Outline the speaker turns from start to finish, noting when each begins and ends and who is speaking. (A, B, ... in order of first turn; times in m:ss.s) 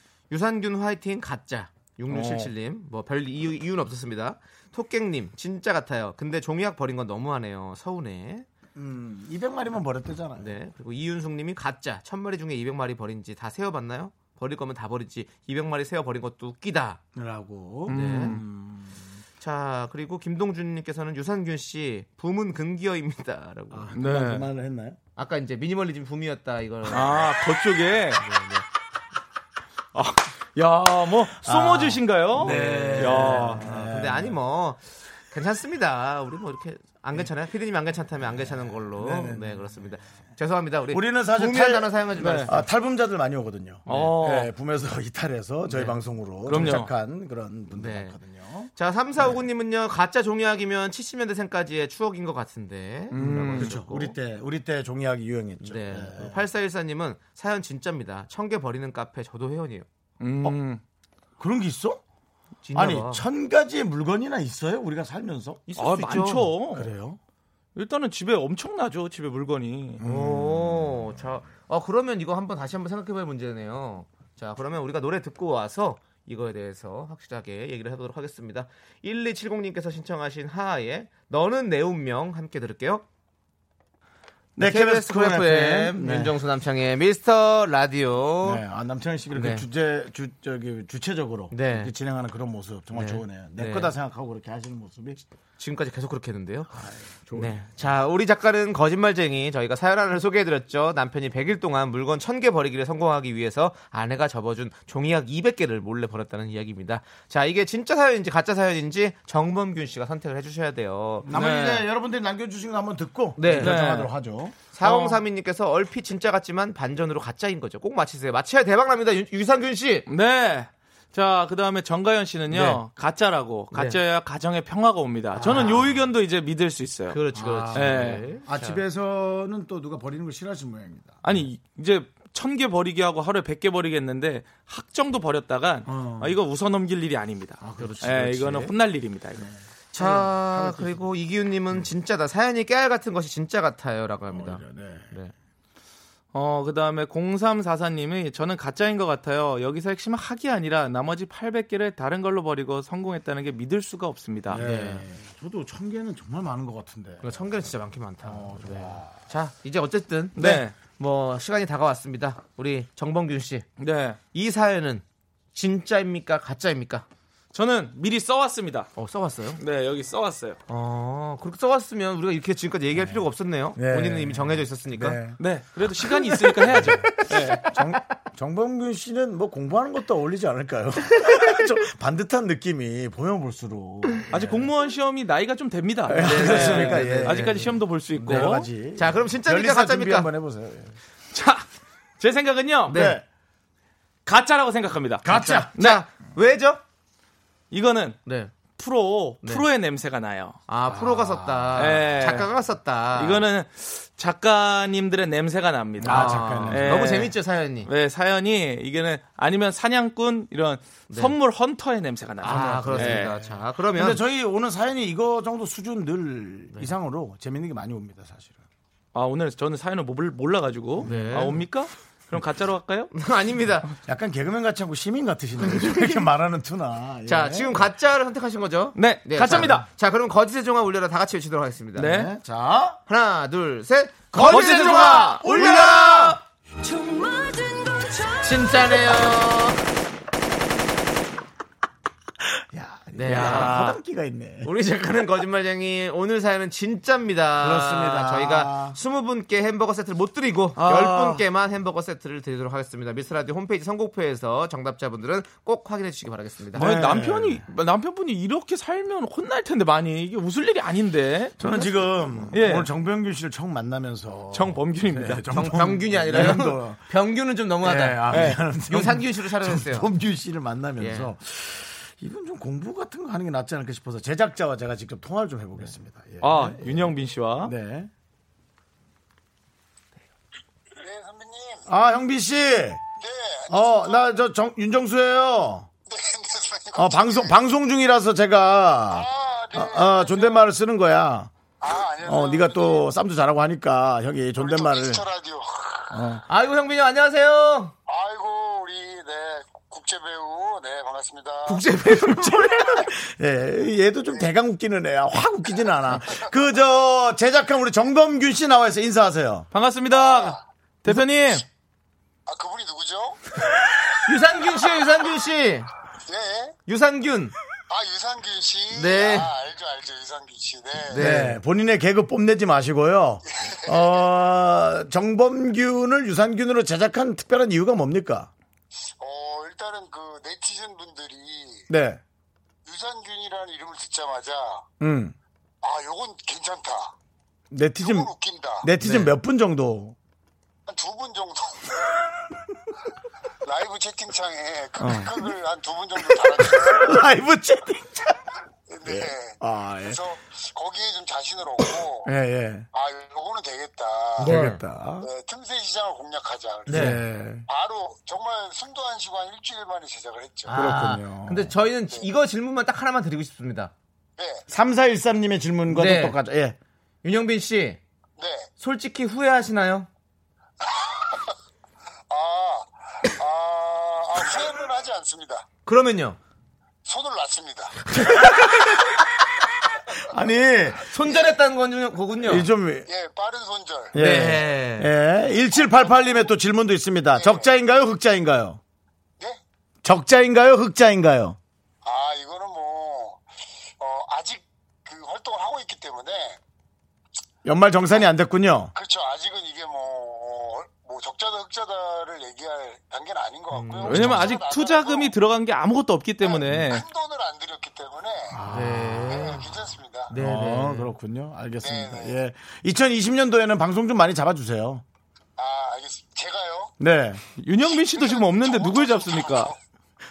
0:00.3-0:08.4 A
0:02.1-0:02.5 B
0:08.7-0:10.5 C
0:10.4-0:17.0 A
0:17.1-0:19.1 C
0:17.9-0:18.4 B
0:17.9-0:18.4 A
0:19.4-0:23.9 A
0:23.7-0:25.0 C
0:23.9-0:24.5 B
0:25.2-0:27.4 A
0:26.8-0:28.2 B
0:28.1-0:28.6 A
0:29.9-0:33.7 B
0:31.4-0:34.4 C
0:32.4-0:42.6 A
0:39.0-0:39.8 C
0:40.9-0:49.4 C
0:42.2-0:42.5 B
0:43.9-0:44.5 B
0:45.7-0:46.0 A
0:46.4-0:46.9 B
0:46.5-0:46.8 A
0:47.7-0:48.2 A
0:48.7-0:54.2 A
0:53.1-0:53.8 B
0:53.1-0:56.4 C
0:55.6-0:59.8 A
1:00.2-1:00.8 B
1:01.4-1:02.0 C
1:02.6-1:03.2 A
1:02.7-1:05.7 C
1:05.7-1:06.5 A
1:05.8-1:06.9 B
1:06.7-1:07.2 C
1:07.7-1:10.0 B
1:10.0-1:11.0 C
1:10.0-1:23.0 A
1:24.6-1:26.4 C
1:24.6-1:28.6 A
1:28.4-1:35.2 C
1:29.3-1:29.6 A
1:31.5-1:31.9 A
1:32.9-1:33.9 A
1:35.6-1:36.7 A
1:36.7-1:37.6 C
1:37.3-1:51.3 A
1:51.2-1:54.5 C
1:51.3-1:51.8 B
1:53.4-1:53.8 A
1:53.5-1:54.1 B
1:54.7-2:00.0 A
1:54.8-1:55.2 B
2:00.1-2:07.2 B
2:02.5-2:02.8 A
2:03.7-2:04.0 A
2:05.4-2:05.9 A
2:05.4-2:05.9 C
2:07.1-2:08.8 A
2:07.3-2:11.4 C
2:07.7-2:08.2 B
2:11.2-2:19.4 B
2:15.8-2:16.4 C
2:17.6-2:18.7 C
2:19.3-2:21.1 C
2:20.0-2:25.3 A
2:24.3-2:25.1 C
2:26.3-2:34.6 B
2:34.5-2:37.6 C
2:34.5-2:35.1 A
2:37.2-2:43.7 A
2:38.2-2:39.2 C
2:40.4-2:40.7 B
2:43.8-2:44.2 B
2:44.3-2:47.0 A
2:47.5-2:48.9 B
2:49.0-2:49.6 A
2:49.6-2:50.6 B
2:50.7-2:55.2 A
2:53.8-2:55.4 C
2:55.4-2:57.7 B
2:56.1-3:04.7 C
3:04.3-3:08.7 B
3:06.1-3:11.0 C
3:06.2-3:10.3 A
3:11.3-3:11.7 B
3:12.2-3:13.1 B
3:12.9-3:13.2 A
3:12.9-3:13.2 C
3:14.2-3:16.0 B
3:15.2-3:15.7 C
3:15.2-3:16.8 A
3:17.7-3:20.6 B
3:18.2-3:18.5 A
3:20.7-3:23.4 A
3:20.8-3:21.8 C
3:21.8-3:22.5 B
3:23.1-3:33.4 B
3:26.0-3:27.2 C
3:26.0-3:27.9 A
3:31.1-3:31.3 A
3:32.4-3:34.2 A
3:32.4-3:38.6 C
3:39.1-3:43.1 B
3:41.0-3:41.6 C
3:41.0-3:41.6 A
3:43.1-3:43.9 A
3:44.0-3:47.9 C
3:45.6-3:46.2 A
3:47.3-3:52.2 A
3:48.9-3:49.9 B
3:52.0-3:52.3 B
3:52.0-3:53.0 C
3:53.1-3:56.4 A
3:54.3-3:56.4 C
3:54.3-3:55.7 B
3:56.8-3:59.0 D
3:58.4-3:59.8 A
4:02.4-4:04.7 C
4:03.1-4:03.8 A
4:03.2-4:04.0 B
4:04.6-4:16.9 A
4:07.6-4:09.0 C
4:10.8-4:11.4 B
4:16.7-4:21.6 B
4:16.7-4:17.7 C
4:21.6-4:27.0 C
4:22.5-4:22.9 B
4:24.5-4:26.5 B
4:25.5-4:30.1 A
4:27.8-4:38.1 C
4:28.3-4:28.6 B
4:31.0-4:31.3 A
4:36.4-4:37.7 B
4:41.0-4:41.9 E
4:41.9-4:43.0 C
4:43.2-4:44.4 E
4:43.7-4:45.9 C
4:46.1-4:47.5 E
4:47.0-4:51.5 C
4:49.1-4:50.7 E
4:51.8-4:53.1 E
4:52.2-4:55.2 C
4:54.6-4:56.2 E
4:56.1-4:56.4 C
4:56.5-4:57.9 A
4:58.1-5:01.8 E
5:01.7-5:03.0 A
5:02.0-5:09.7 C
5:09.7-5:11.6 B
5:10.1-5:10.6 E
5:12.5-5:13.4 E
5:14.2-5:15.9 A
5:16.3-5:16.7 E
5:16.9-5:17.5 A
5:17.9-5:21.2 E
5:18.9-5:19.5 A
5:21.1-5:21.6 A
5:21.1-5:28.5 C
5:23.6-5:24.2 E
5:29.2-5:31.9 E
5:31.9-5:32.2 C
5:32.8-5:34.9 E
5:35.0-5:35.3 C
5:35.8-5:37.1 E
5:37.7-5:38.3 C
5:38.0-5:38.9 E
5:38.8-5:40.2 C
5:39.0-5:39.3 A
5:40.9-5:42.2 E
5:43.6-5:47.2 E
5:45.0-5:45.5 C
5:46.2-5:48.4 C
5:48.9-5:52.3 E
5:49.0-5:50.2 C
5:52.2-5:52.9 C
5:52.9-5:54.6 E
5:54.4-5:54.8 A
5:54.4-5:55.3 C
5:55.2-5:57.1 E
5:56.9-5:57.2 A
5:56.9-5:57.6 C
5:57.7-6:00.7 E
6:00.6-6:03.9 A
6:00.7-6:01.7 C
6:04.4-6:04.6 E
6:04.7-6:06.8 C
6:05.9-6:06.4 A
6:07.2-6:08.0 A
6:08.4-6:08.7 E
6:08.8-6:10.1 A
6:10.8-6:11.4 E
6:12.3-6:15.6 E
6:15.8-6:16.4 A
6:17.0-6:18.4 E
6:18.3-6:19.0 C
6:20.2-6:21.4 C
6:21.1-6:22.7 A
6:22.4-6:23.1 C
6:23.1-6:24.1 E
6:24.1-6:28.8 C
6:24.1-6:25.1 A
6:26.0-6:26.5 E
6:27.3-6:27.7 E
6:30.0-6:31.6 C
6:32.0-6:33.4 E
6:34.0-6:36.6 E
6:37.6-6:38.9 C
6:38.9-6:45.3 E
6:43.7-6:44.4 A
6:44.1-6:47.0 B
6:44.1-6:44.4 C
6:46.4-6:48.6 E
6:48.5-6:49.6 C
6:48.7-6:49.7 A
6:49.2-6:50.3 E
6:50.3-6:51.1 A
6:50.3-6:55.0 C
6:51.8-6:52.4 E
6:55.6-6:57.0 E
6:57.0-6:57.4 C
6:57.6-6:59.7 B
6:57.8-6:59.8 E